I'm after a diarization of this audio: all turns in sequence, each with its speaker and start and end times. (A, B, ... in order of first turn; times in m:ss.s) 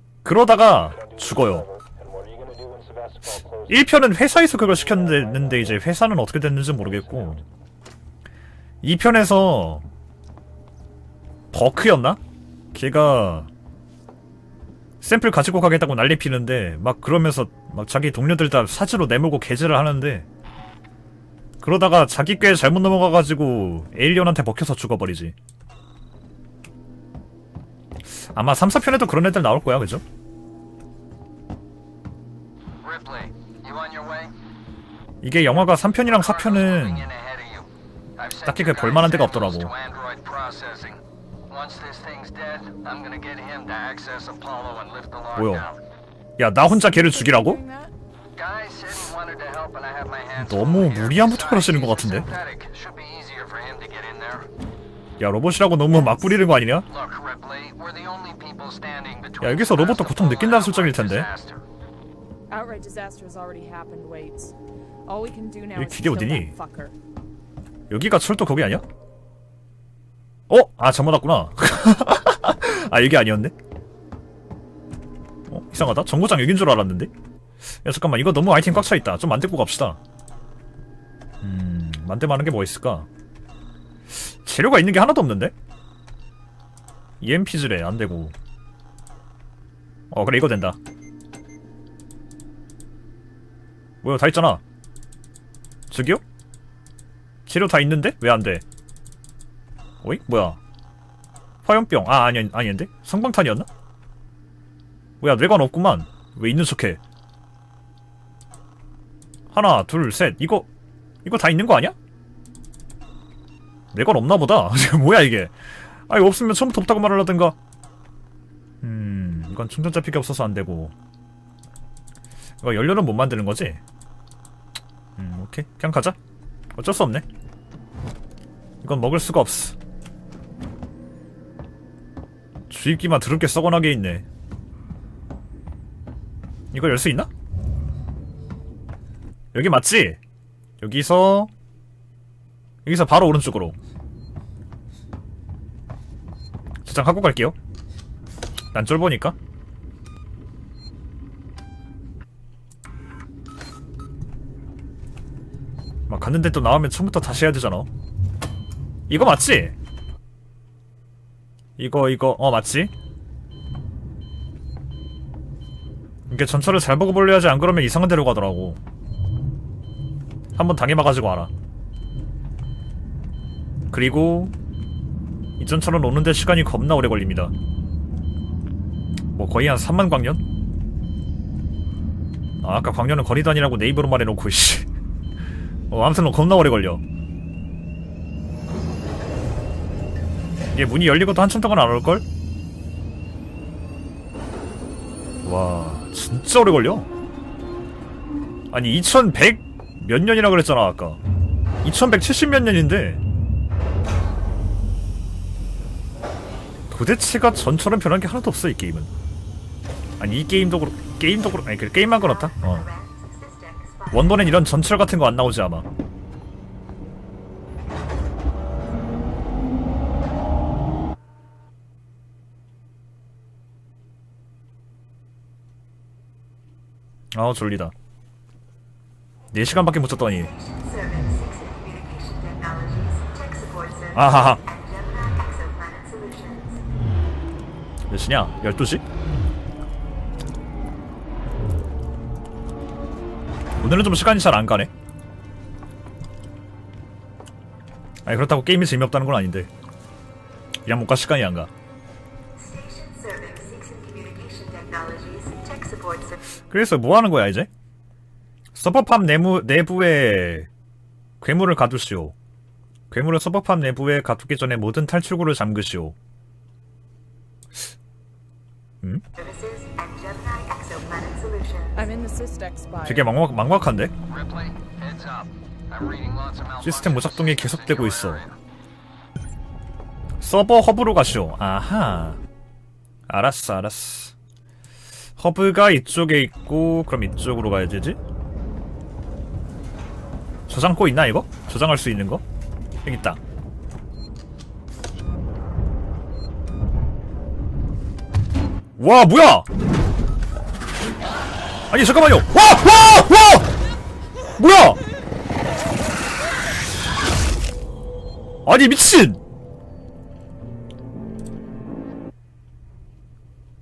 0:00.2-0:01.6 A
0:00.6-0:05.8 B
0:03.7-0:07.4 A
0:06.7-0:07.4 B
0:08.8-0:09.9 A
0:11.5-0:12.2 A
0:12.7-0:13.5 A
0:15.0-0:20.2 A
0:21.6-0:25.3 A
0:28.3-0:30.0 A
0:32.8-0:34.3 C
0:35.2-0:37.1 A
0:35.9-0:45.8 C
0:38.4-0:39.7 A
0:45.4-0:45.6 A
0:46.4-0:47.6 A
0:46.6-0:47.9 D
0:48.3-0:54.5 C
0:50.4-0:52.3 A
0:55.2-0:56.8 A
0:56.0-0:56.4 D
0:56.8-1:01.6 C
0:59.4-1:01.3 A
1:02.5-1:04.5 D
1:05.0-1:06.9 D
1:05.7-1:06.5 A
1:07.9-1:08.8 A
1:10.5-1:13.5 A
1:15.5-1:17.1 A
1:17.8-1:20.0 A
1:21.4-1:23.1 A
1:24.1-1:25.5 A
1:27.2-1:28.3 A
1:30.1-1:30.8 A
1:34.0-1:34.6 A
1:35.9-1:36.2 A
1:37.4-1:38.6 A
1:40.0-1:40.6 A
1:41.6-1:43.7 A
1:45.2-1:47.0 A
1:49.5-1:50.7 A
1:51.2-1:52.0 A
1:53.9-1:55.6 A
1:56.1-1:57.6 A
1:58.8-2:00.9 A
2:02.6-2:03.8 A
2:05.2-2:06.2 A
2:06.8-2:07.2 A
2:08.8-2:09.8 A
2:12.7-2:14.2 A
2:16.7-2:17.3 A
2:19.5-2:20.2 A
2:20.8-2:21.5 A
2:22.8-2:23.7 A
2:26.8-2:27.6 A
2:28.7-2:29.3 A
2:36.1-2:37.9 A
2:39.1-2:39.7 A
2:41.8-2:42.9 A
2:46.3-2:48.8 A
2:50.6-2:51.5 A
2:53.9-2:54.5 A
2:55.6-2:57.5 A
2:59.4-3:00.4 A
3:02.6-3:04.8 A
3:05.9-3:07.0 A
3:10.7-3:12.2 A
3:15.4-3:17.1 A
3:18.7-3:21.2 A
3:21.8-3:23.2 A
3:26.9-3:29.1 A
3:30.2-3:32.9 A
3:32.1-3:34.6 E
3:34.1-3:35.9 A
3:47.3-3:47.9 A
3:49.5-3:50.5 A
3:50.2-3:56.8 E
3:54.1-3:54.6 A
3:58.1-3:59.0 A
4:03.8-4:04.9 A
4:08.2-4:09.7 A
4:10.8-4:11.7 A
4:12.6-4:16.4 E
4:16.7-4:17.7 A
4:18.7-4:20.7 A
4:21.4-4:22.3 A
4:23.1-4:26.1 A
4:29.4-4:32.1 E
4:31.9-4:33.3 D
4:33.0-4:34.1 A
4:34.3-4:38.5 C
4:36.8-4:38.4 A
4:40.4-4:42.4 A
4:43.3-4:44.3 A
4:45.4-4:48.2 A
4:50.7-4:52.4 A
4:53.0-4:53.4 A
4:59.0-4:59.6 A
5:01.9-5:03.7 A
5:04.6-5:05.0 A
5:08.6-5:09.4 A